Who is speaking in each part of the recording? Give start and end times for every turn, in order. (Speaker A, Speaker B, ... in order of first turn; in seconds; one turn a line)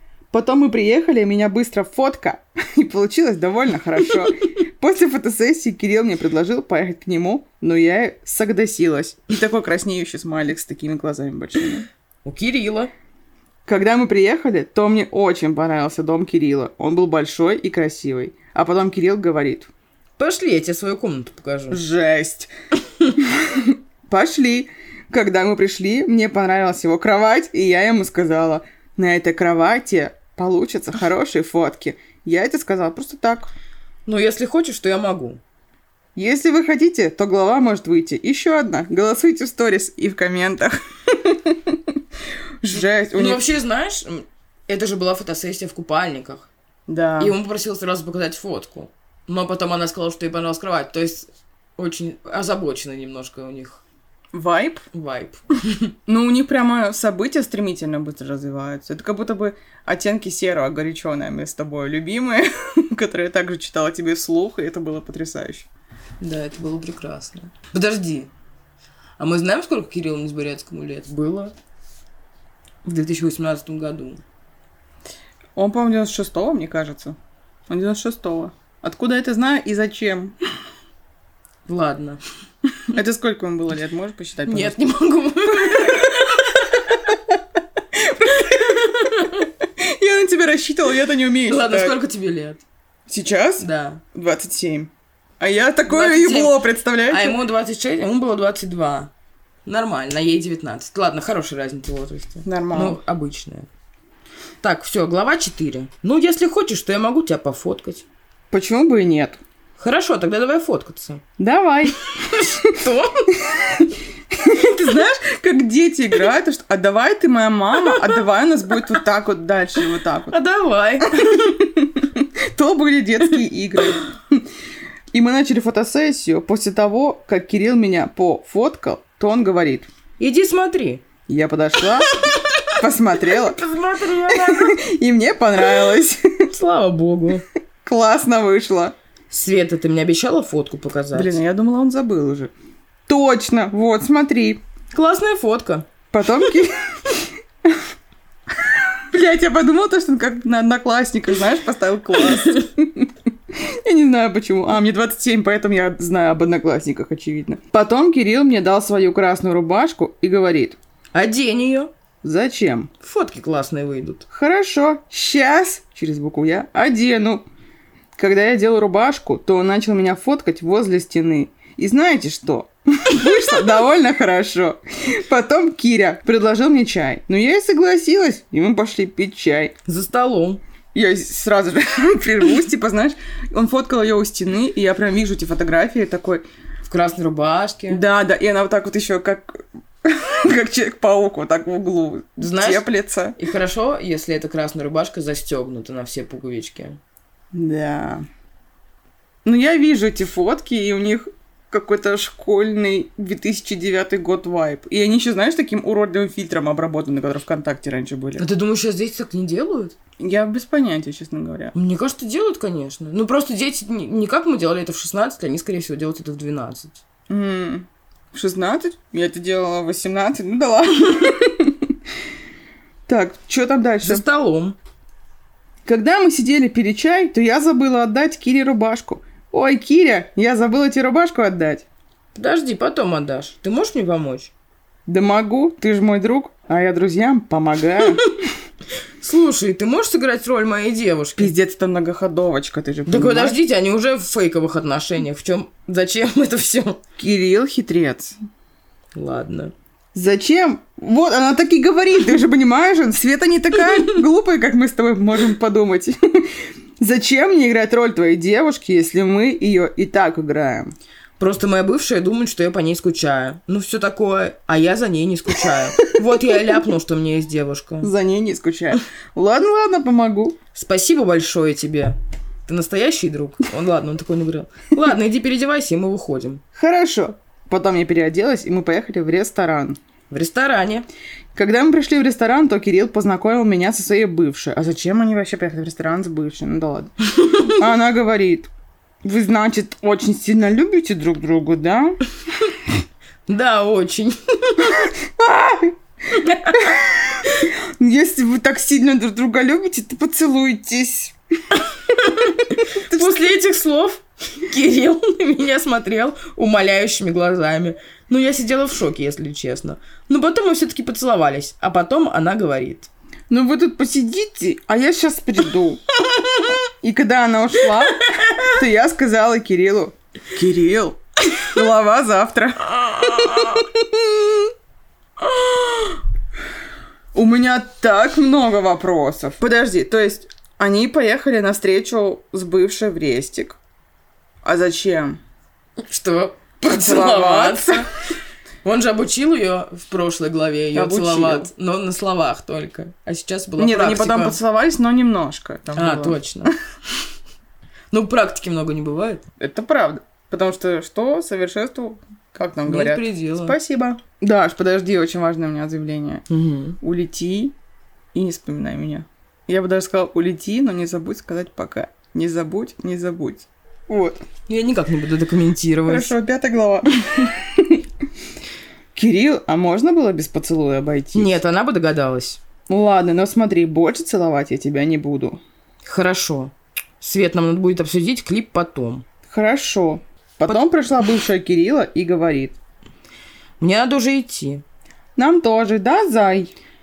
Speaker A: 0.3-11.9
Speaker B: 12.2-12.9
Speaker A: 13.7-19.7
Speaker B: 20.2-21.8
Speaker A: 21.7-22.5
Speaker A: 23.2-33.5
Speaker B: 34.1-35.4
Speaker A: 36.2-41.8
Speaker A: 42.6-43.4
Speaker B: 43.1-46.5
Speaker A: 46.9-47.4
Speaker B: 47.2-53.8
Speaker A: 54.3-54.9
Speaker B: 54.9-55.9
Speaker A: 56.1-65.7
Speaker B: 66.2-68.3
Speaker B: 69.2-71.5
Speaker B: 72.8-74.2
Speaker A: 75.6-77.2
Speaker A: 77.7-80.3
Speaker B: 81.7-82.2
Speaker A: 82.9-84.8
Speaker B: 84.5-86.8
Speaker A: 85.6-87.2
Speaker A: 87.9-92.0
Speaker B: 88.4-89.5
Speaker B: 91.5-92.6
Speaker A: 93.1-97.4
Speaker B: 93.6-94.0
Speaker B: 95.9-99.1
Speaker B: 99.7-103.7
Speaker A: 102.4-103.0
Speaker B: 104.6-108.0
Speaker A: 108.5-109.4
Speaker B: 109.8-111.2
Speaker A: 111.4-112.8
Speaker B: 112.2-113.3
Speaker A: 113.4-120.4
Speaker B: 120.3-121.6
Speaker A: 121.1-124.4
Speaker A: 125.1-129.9
Speaker B: 130.2-131.0
Speaker A: 131.3-133.6
Speaker B: 132.2-132.7
Speaker B: 133.2-134.8
Speaker A: 134.3-136.5
Speaker B: 136.5-137.4
Speaker A: 137.8-138.9
Speaker B: 139.3-141.4
Speaker A: 141.1-142.5
Speaker A: 143.1-144.6
Speaker B: 144.9-145.9
Speaker A: 146.1-147.8
Speaker A: 148.6-160.8
Speaker B: 152.3-152.6
Speaker B: 161.1-161.9
Speaker A: 162.2-162.9
Speaker B: 163.0-164.2
Speaker A: 164.3-167.4
Speaker A: 168.2-179.7
Speaker B: 179.9-180.6
Speaker A: 180.9-186.4
Speaker B: 186.9-188.0
Speaker A: 187.9-193.4
Speaker B: 192.4-197.0
Speaker A: 197.5-198.2
Speaker A: 199.4-208.5
Speaker B: 208.4-210.0
Speaker A: 210.2-211.7
Speaker B: 211.7-217.0
Speaker A: 217.3-221.8
Speaker A: 223.1-224.2
Speaker B: 224.0-224.8
Speaker A: 225.9-231.9
Speaker B: 232.3-234.5
Speaker A: 235.1-238.3
Speaker B: 238.0-238.4
Speaker B: 239.2-241.5
Speaker A: 241.4-243.6
Speaker B: 243.1-247.0
Speaker A: 247.2-248.4
Speaker B: 249.2-249.7
Speaker A: 250.1-256.5
Speaker A: 257.0-260.9
Speaker B: 261.4-268.1
Speaker A: 268.0-270.6
Speaker B: 270.7-276.6
Speaker A: 276.8-280.0
Speaker B: 280.3-281.1
Speaker A: 281.6-288.7
Speaker A: 289.2-292.2
Speaker B: 293.5-295.1
Speaker A: 295.0-301.4
Speaker B: 296.4-296.9
Speaker B: 302.2-313.1
Speaker A: 302.5-303.5
Speaker A: 313.5-316.0
Speaker B: 316.3-316.7
Speaker A: 317.0-324.7
Speaker A: 325.4-326.2
Speaker A: 327.3-333.8
Speaker A: 334.6-335.4
Speaker B: 336.0-338.1
Speaker A: 336.8-338.1
Speaker B: 338.8-344.6
Speaker A: 340.9-341.7
Speaker A: 343.8-346.7
Speaker B: 346.0-346.7
Speaker B: 348.1-349.4
Speaker A: 349.6-356.5
Speaker B: 352.9-353.8
Speaker B: 356.5-357.0
Speaker A: 357.0-357.8
Speaker A: 358.3-364.4
Speaker B: 364.7-366.3
Speaker A: 366.1-368.0
Speaker A: 369.1-371.6
Speaker B: 371.3-372.6
Speaker A: 372.9-375.6
Speaker B: 376.0-379.2
Speaker A: 379.5-382.8
Speaker B: 383.8-384.8
Speaker A: 385.4-386.7